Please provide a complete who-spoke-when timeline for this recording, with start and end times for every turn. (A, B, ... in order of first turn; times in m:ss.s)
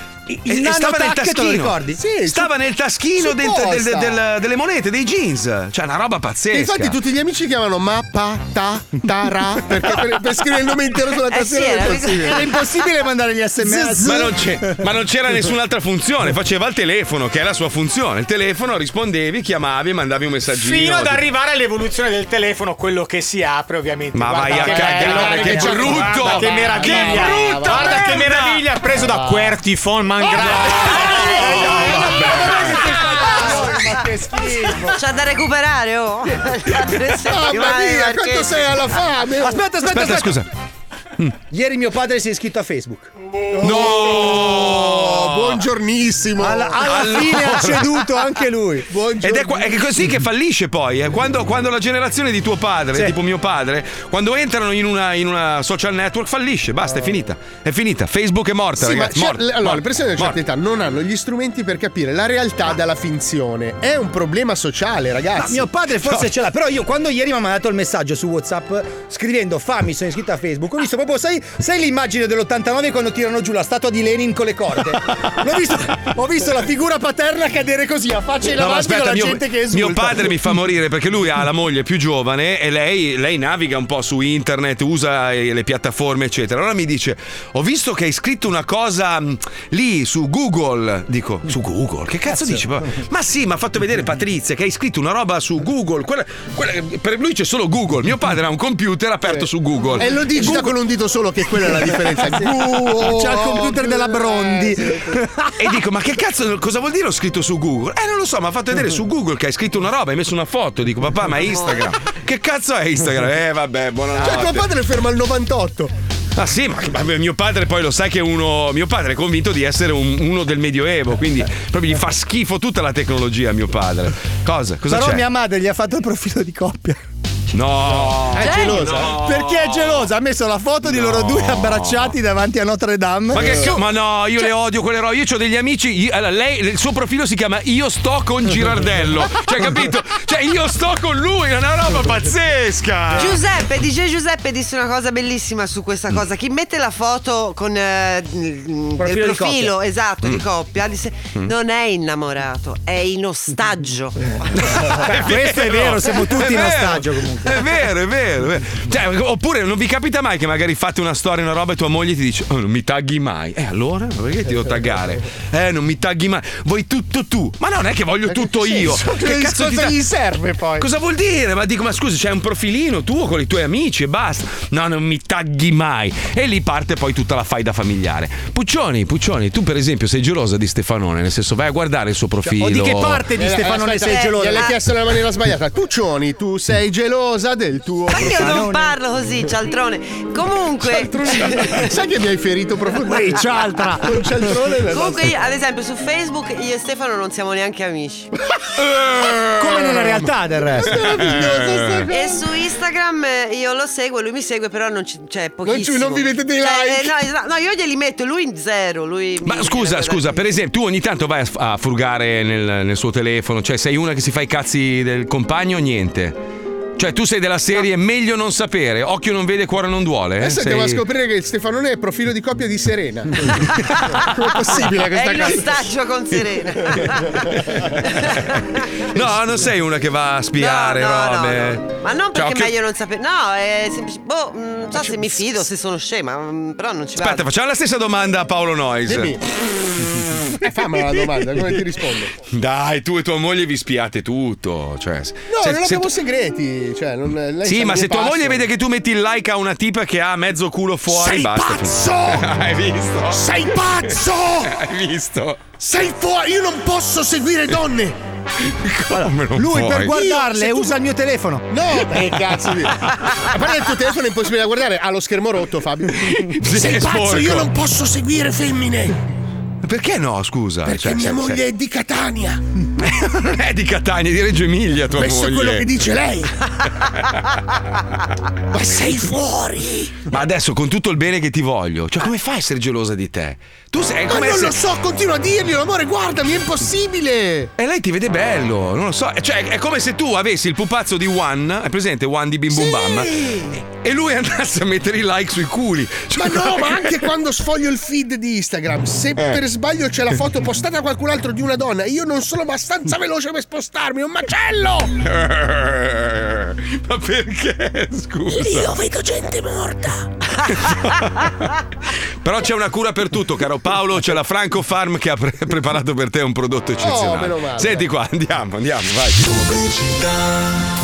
0:00.3-0:02.0 A
0:00.4-0:07.0 B
0:02.0-0:02.5 C
0:03.2-0:04.2 C
0:06.5-0:12.6 C
0:11.3-0:12.7 D
0:12.3-0:14.8 A
0:13.9-0:21.3 B
0:20.5-0:31.2 E
0:24.1-0:28.6 B
0:24.6-0:28.3 C
0:30.2-0:33.8 C
0:30.9-0:33.1 B
0:31.5-0:33.7 A
0:34.4-0:39.0 D
0:37.2-0:39.6 C
0:39.4-0:40.4 A
0:39.9-0:40.5 B
0:41.5-0:43.1 A
0:43.6-0:46.9 C
0:43.6-0:45.6 B
0:46.4-0:49.0 A
0:46.8-0:48.2 B
0:48.9-0:49.7 C
0:49.2-1:00.4 B
0:58.8-1:05.6 C
1:05.4-1:20.4 A
1:06.0-1:06.3 B
1:18.5-1:40.5 B
1:32.3-1:32.6 A
1:39.2-1:45.2 C
1:40.4-1:40.7 A
1:41.8-1:45.5 A
1:45.6-1:54.7 B
1:51.4-1:51.9 D
1:54.2-1:55.9 C
1:56.4-2:05.3 B
2:04.9-2:07.0 A
2:07.5-2:10.1 B
2:08.3-2:09.2 C
2:08.4-2:08.8 D
2:09.1-2:13.6 A
2:10.8-2:12.2 B
2:13.3-2:23.4 B
2:23.1-2:34.2 D
2:29.0-2:29.7 A
2:34.5-2:50.0 B
2:35.0-2:37.6 A
2:48.3-2:50.8 C
2:50.8-3:03.3 B
3:02.4-3:04.6 A
3:03.3-3:08.7 C
3:04.0-3:04.8 D
3:08.1-3:11.9 D
3:08.4-3:08.9 A
3:10.8-3:15.3 C
3:13.0-3:14.5 A
3:14.9-3:18.3 D
3:19.0-3:19.9 B
3:19.6-3:21.0 A
3:20.7-3:22.4 C
3:20.8-3:22.0 B
3:22.1-3:30.5 D
3:25.6-3:27.1 C
3:29.4-3:36.4 B
3:37.0-3:41.0 B
3:40.4-3:43.5 C
3:43.6-3:47.5 D
3:44.3-3:45.8 C
3:48.1-3:49.2 D
3:49.1-3:52.7 B
3:50.5-3:57.5 D
3:57.2-3:59.4 B
3:59.1-3:59.4 C
4:00.6-4:02.3 C
4:02.5-4:06.1 B
4:05.5-4:08.6 C
4:07.6-4:15.6 B
4:11.1-4:12.5 C
4:13.3-4:14.7 C
4:15.8-4:18.2 C
4:18.6-4:20.2 B
4:19.2-4:21.6 A
4:20.1-4:21.0 C
4:21.7-4:29.2 C
4:26.2-4:27.7 B
4:29.8-4:31.6 B
4:30.8-4:32.6 C
4:33.0-4:35.9 B
4:35.2-4:36.5 C
4:38.7-4:40.2 C
4:40.3-4:44.8 B
4:44.3-4:47.7 C
4:47.8-4:57.2 B
4:52.7-4:53.7 C
4:56.3-5:05.1 C
5:05.2-5:09.0 B
5:08.5-5:10.2 C
5:10.6-5:11.5 B
5:12.4-5:20.2 B
5:17.0-5:18.1 C